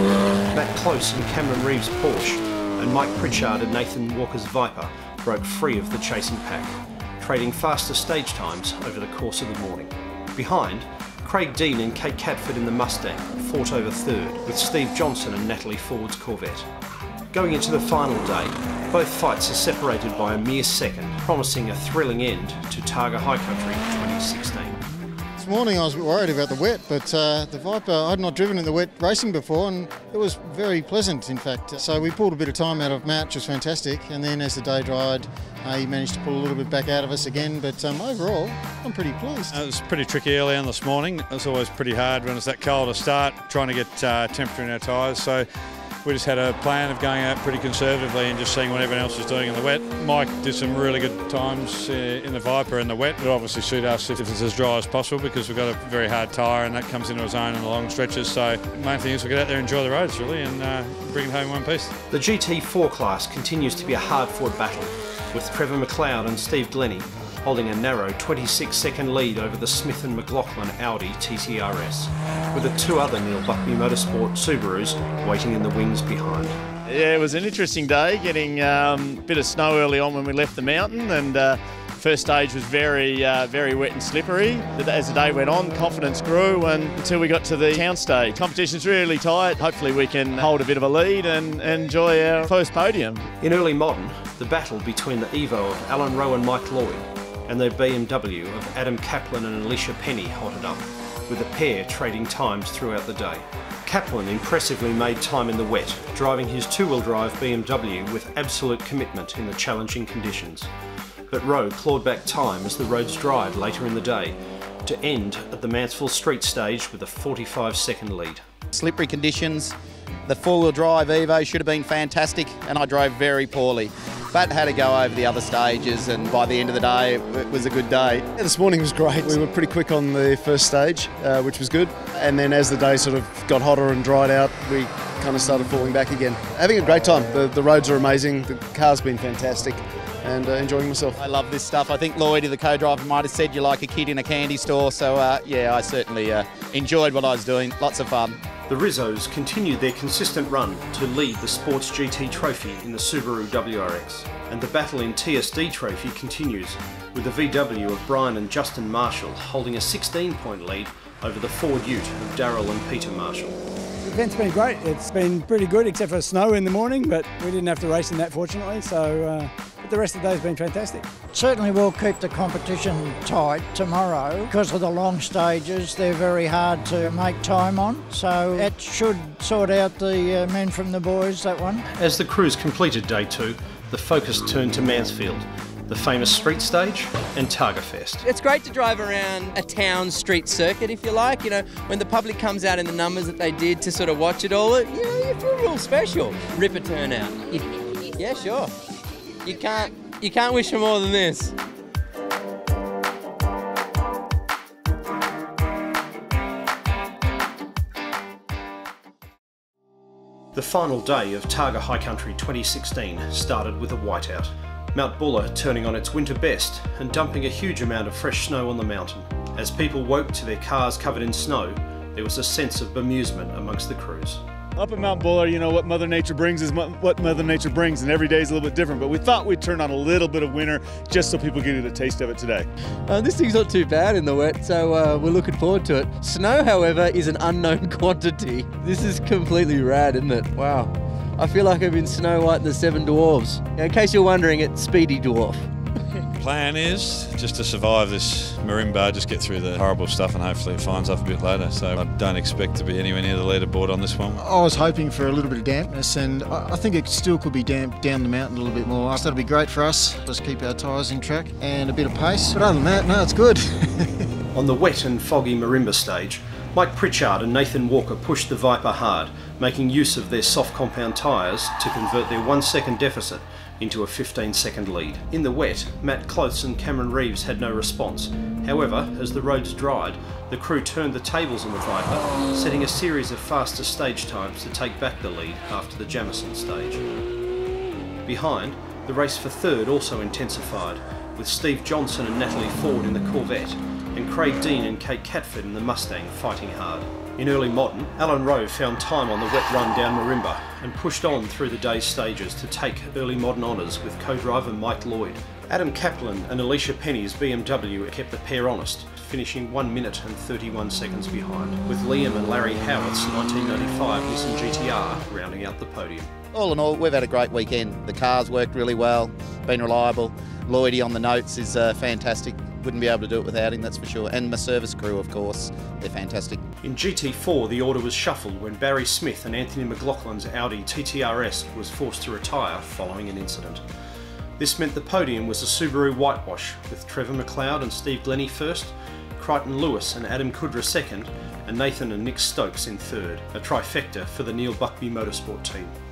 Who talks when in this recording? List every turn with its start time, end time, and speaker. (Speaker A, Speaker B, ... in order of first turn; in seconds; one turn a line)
Speaker A: 0.5-16.7
Speaker A: 17.3-24.8
Speaker B: 25.4-39.6
Speaker C: 39.5-45.5
Speaker C: 46.0-61.9
Speaker A: 62.1-76.5
Speaker D: 76.9-93.3
Speaker A: 93.4-110.7
Speaker A: 111.3-118.4
Speaker E: 118.7-119.7
Speaker E: 120.2-128.2
Speaker F: 128.4-141.2
Speaker E: 141.2-148.4
Speaker A: 148.7-163.6
Speaker G: 164.0-171.0
Speaker H: 171.3-181.8
Speaker A: 181.9-188.2
Speaker I: 188.2-197.6
Speaker I: 198.1-198.7
Speaker I: 199.4-201.5
Speaker A: 210.5-224.4
Speaker J: 224.8-232.7
Speaker I: 233.1-245.6
Speaker C: 246.4-254.5
Speaker B: 254.3-264.2
Speaker A: 264.5-287.0
Speaker A: 288.2-316.3
Speaker E: 316.5-326.6
Speaker A: 326.8-333.8
Speaker A: 334.6-345.9